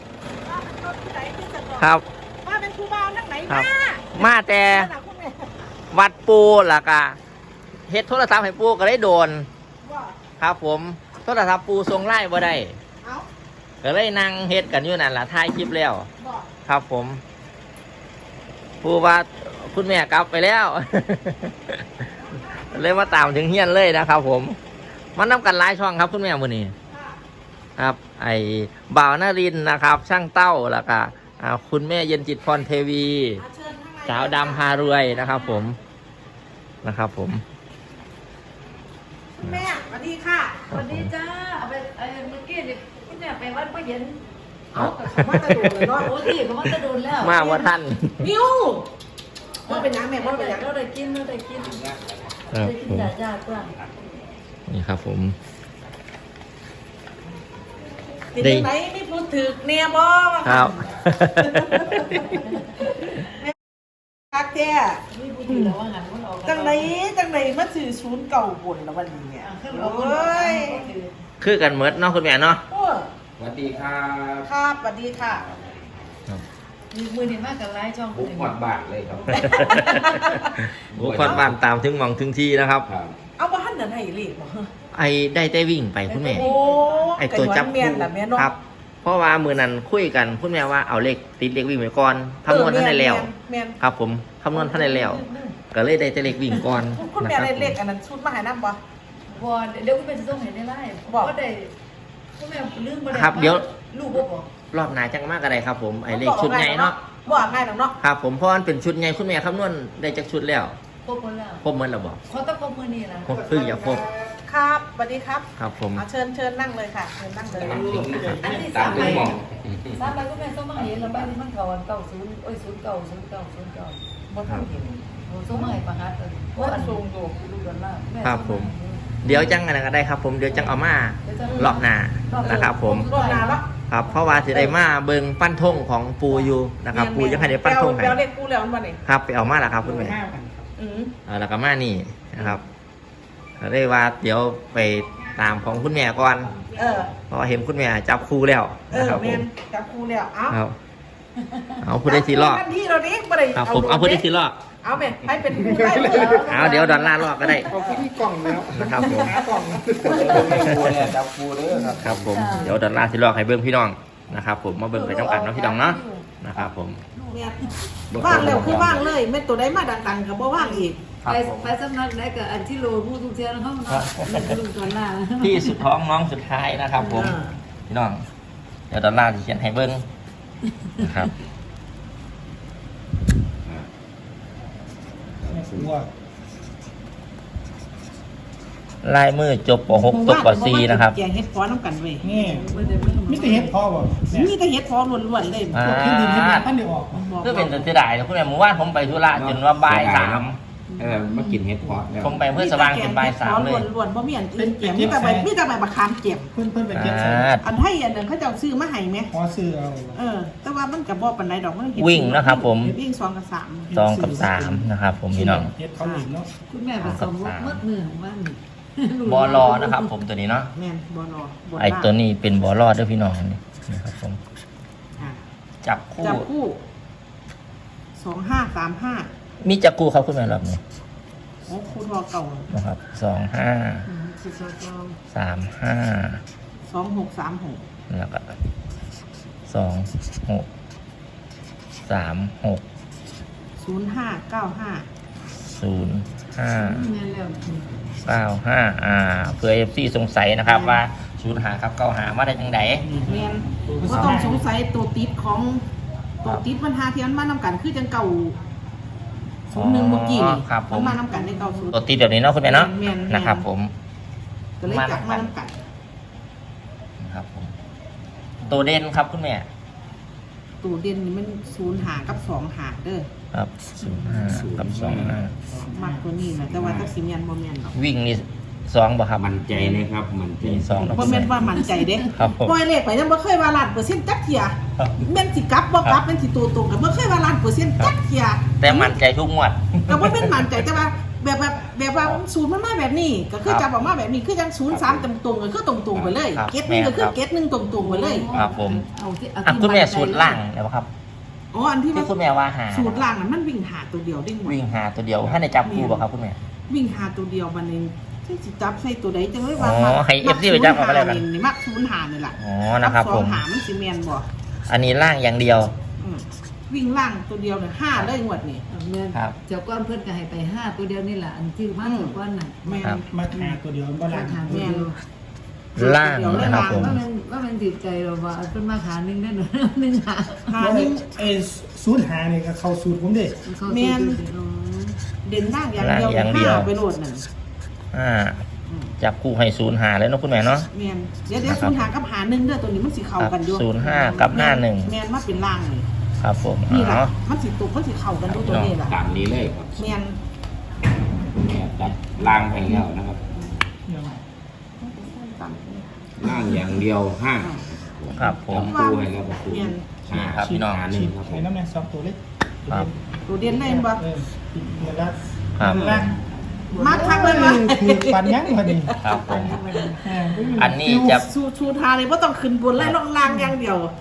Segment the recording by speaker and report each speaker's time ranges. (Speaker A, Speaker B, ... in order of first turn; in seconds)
Speaker A: 0.4-1.9, 2.4-5.5, 9.8-10.2, 16.2-16.5, 22.3-22.8, 26.9-27.2, 33.4-34.6, 39.4-40.7, 44.8-46.1, 48.2-48.9, 49.7-50.7, 58.3-63.5, 64.3-65.0, 66.4-70.8, 72.7-73.1, 74.4-75.4, 79.3-80.7, 81.2-81.5, 83.4-84.7, 86.3-88.5, 92.5-93.8, 94.5-95.5, 96.8-98.8, 101.1-101.3, 106.1-108.0, 114.5-118.2, 124.3-125.8, 126.5-127.4, 131.5-131.8, 132.4-133.7, 136.9-139.0, 140.8-141.1, 146.7-147.1, 148.9-150.6, 152.0-154.2, 154.8-156.8, 158.9-159.4, 167.3-167.7, 168.2-171.0, 177.0-177.6, 189.9-192.3, 194.3-196.0, 197.1-197.9, 202.5-206.5, 207.6-209.3, 210.1-213.9, 216.0-216.2, 220.7-222.1, 226.2-226.8, 228.2-229.3, 231.7-232.7, 236.9-237.8, 243.8-245.1, 253.1-255.8, 256.4-258.6, 259.7-261.9, 262.6-263.7, 264.8-265.8, 270.8-273.3, 275.8-277.9, 280.9-289.2, 290.1-298.5, 301.7-302.3, 302.9-304.8, 305.8-306.2, 306.9-314.5, 316.2-318.8, 322.0-323.2, 324.7-325.1, 326.0-327.2, 330.7-331.4, 333.9-334.4, 335.4-337.5, 338.9-339.1, 340.9-346.1, 346.9-349.2, 350.0-350.4, 355.0-356.9, 358.7-360.2, 363.5-364.2, 366.9-369.2, 369.9-370.1, 371.3-374.1
Speaker B: 1.8-2.0, 3.5-4.9, 5.9-7.2, 7.9-9.5, 10.4-12.8, 13.8-16.1, 16.6-17.2, 18.8-22.1, 22.7-24.6, 25.1-26.7, 27.8-33.4, 34.0-35.8, 36.8-37.4, 40.7-41.1, 44.7-46.0, 46.6-48.3, 52.5-53.1, 54.7-55.3, 58.4-58.7, 60.4-62.4, 71.4-72.6, 79.3-82.9, 84.9-86.4, 87.2-93.3, 93.8-97.8, 103.1-103.6, 104.7-107.0, 108.0-110.8, 111.6-112.2, 113.2-114.1, 115.6-116.0, 128.2-133.1, 133.9-138.2, 139.0-140.2, 141.2-142.6, 143.6-146.5, 147.3-149.4, 150.5-150.8, 151.8-152.7, 153.5-154.6, 156.5-157.7, 158.7-159.4, 162.0-167.0, 168.2-169.0, 171.2-171.7, 173.9-174.6, 175.4-177.3, 177.9-178.2, 178.9-180.0, 181.0-181.3, 189.0-191.2, 195.7-196.7, 197.4-200.6, 202.2-203.9, 206.9-207.6, 212.0-212.9, 213.9-215.7, 217.0-217.8, 219.2-220.7, 221.8-224.4, 225.8-226.5, 229.6-230.8, 232.7-234.1, 235.3-236.4, 238.1-238.5, 239.7-240.7, 242.1-242.8, 245.7-247.0, 248.2-253.1, 259.7-261.2, 261.9-263.9, 264.8-265.5, 267.2-267.7, 268.6-269.6, 273.5-275.5, 277.9-279.4, 280.6-281.5, 282.3-282.8, 288.8-290.6, 294.9-295.2, 296.5-297.4, 298.5-299.0, 299.6-301.1, 302.1-303.3, 304.6-306.6, 309.8-311.4, 312.6-313.6, 314.9-315.9, 325.9-327.2, 336.0-336.9, 338.1-338.6, 339.2-340.9, 341.6-342.1, 343.4-345.1, 346.4-347.3, 348.4-349.0, 358.3-359.0, 360.3-361.0, 365.8-366.3, 369.2-369.8, 370.8-371.5
Speaker C: 40.7-44.2, 44.7-45.1, 45.9-47.5, 49.6-51.9, 52.5-53.7, 62.1-62.7, 65.1-66.9, 69.4-71.1, 76.9-78.6, 79.1-80.0, 86.1-87.1, 99.3-101.7, 102.3-104.5, 111.0-111.6, 112.3-113.3, 118.3-119.3, 119.9-124.0, 125.3-129.6, 130.5-134.8, 155.7-158.0, 160.0-160.8, 162.3-162.8, 164.9-167.8, 170.6-175.8, 192.3-193.7, 200.9-201.6, 216.7-220.1, 234.1-235.2, 246.7-247.9, 250.7-251.0, 261.3-261.9, 279.7-280.0, 281.7-282.2, 297.8-300.6, 318.9-322.9, 323.5-325.2, 326.5-330.7, 333.6-335.2, 344.0-344.4, 366.9-367.8, 369.2-370.9
Speaker D: 73.4-74.5, 75.2-75.9, 78.1-79.8, 80.9-81.6, 82.9-83.2, 117.5-120.1, 120.8-121.3, 160.0-162.6, 168.1-169.1, 185.4-185.9, 199.3-202.5, 274.5-275.4, 276.7-277.1, 279.4-281.6, 296.1-296.4, 349.0-350.0, 351.6-353.9, 356.4-361.7
Speaker E: 113.2-114.4, 117.6-119.3, 139.8-140.7, 155.5-156.5, 157.5-160.7, 185.5-186.1, 192.2-194.5, 195.7-197.2, 204.6-205.5, 206.5-207.5, 209.3-210.2, 213.9-216.5, 253.1-254.6, 275.1-276.3, 323.2-325.0, 326.8-327.1, 330.8-333.6, 354.1-354.4, 360.4-366.3, 367.0-369.1, 370.2-371.4